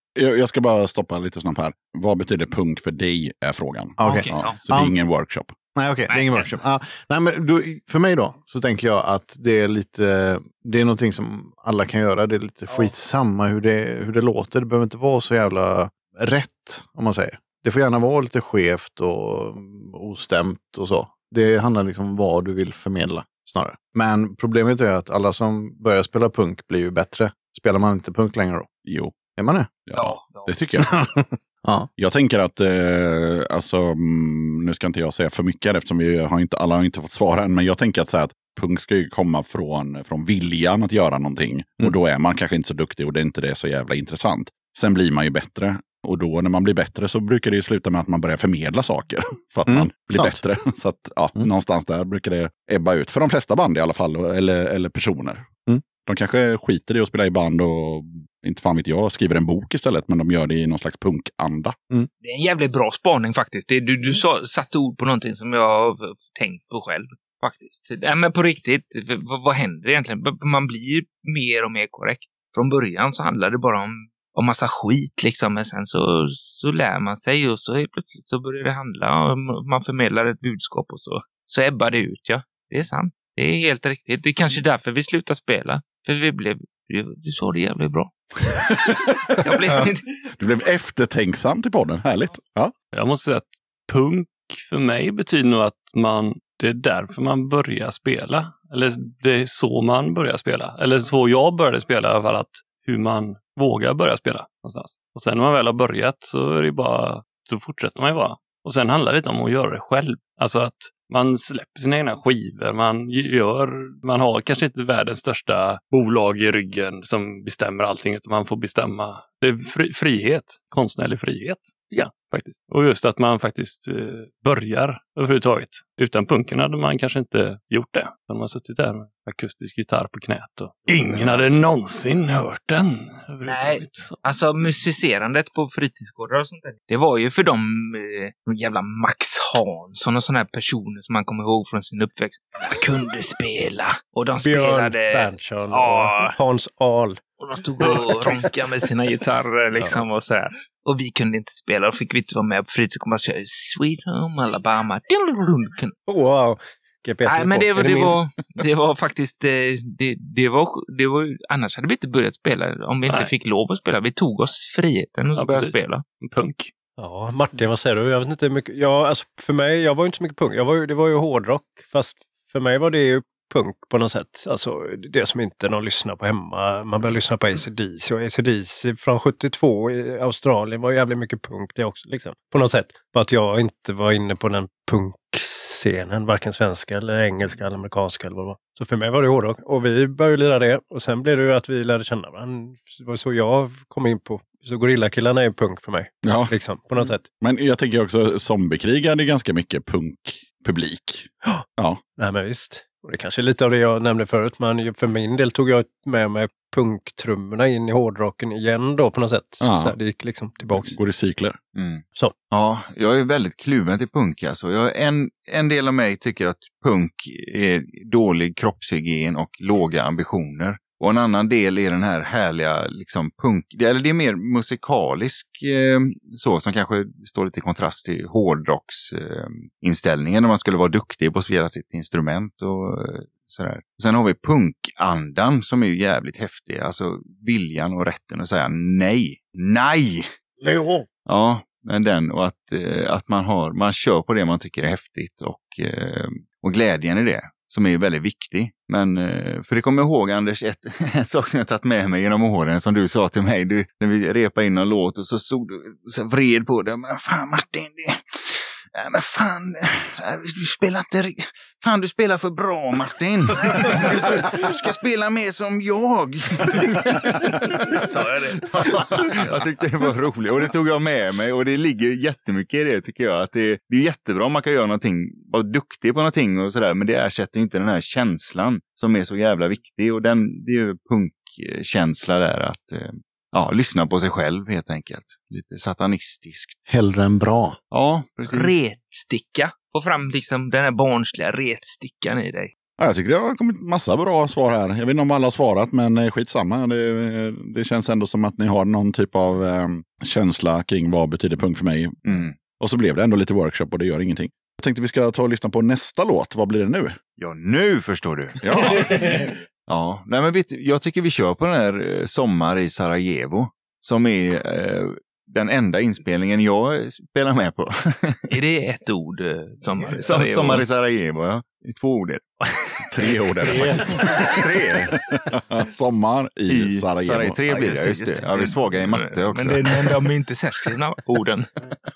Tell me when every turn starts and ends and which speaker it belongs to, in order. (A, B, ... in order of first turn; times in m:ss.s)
0:00.1-0:05.6 A
0:04.0-0:04.9 B
0:04.0-0:04.6 C
0:05.7-0:28.7 B
0:06.1-0:06.5 C
0:28.8-0:29.2 A
0:29.3-0:29.8 B
0:29.8-0:31.0 A
0:29.9-0:30.7 C
0:30.8-0:31.9 B
0:32.0-1:01.8 A
0:49.7-0:50.4 B
1:02.2-1:28.1 C
1:28.8-1:29.1 A
1:29.3-1:30.1 C
1:30.4-1:32.7 A
1:32.9-2:14.2 D
2:13.4-2:26.4 C
2:24.4-2:27.2 E
2:27.4-2:35.9 C
2:27.8-2:28.5 E
2:36.1-2:38.2 E
2:37.2-2:46.0 C
2:45.3-2:46.7 D
2:47.0-3:17.2 E
3:16.2-3:16.6 A
3:17.3-3:22.0 A
3:22.2-3:30.9 E
3:29.6-3:30.0 A
3:30.8-3:31.6 A
3:31.7-4:00.3 F
4:00.6-4:01.1 B
4:01.2-4:46.8 F
4:27.9-4:29.6 C
4:46.9-4:47.8 B
4:47.9-4:48.7 F
4:48.5-4:52.7 C
4:53.0-5:02.2 A
5:02.2-5:02.6 F
5:02.8-5:07.2 A
5:07.4-5:18.5 F
5:08.6-5:09.4 A
5:18.5-5:20.8 C
5:20.2-5:22.5 F
5:23.1-5:24.4 A
5:23.6-5:25.1 F
5:25.1-5:27.7 A
5:26.7-5:30.2 F
5:27.7-5:31.7 C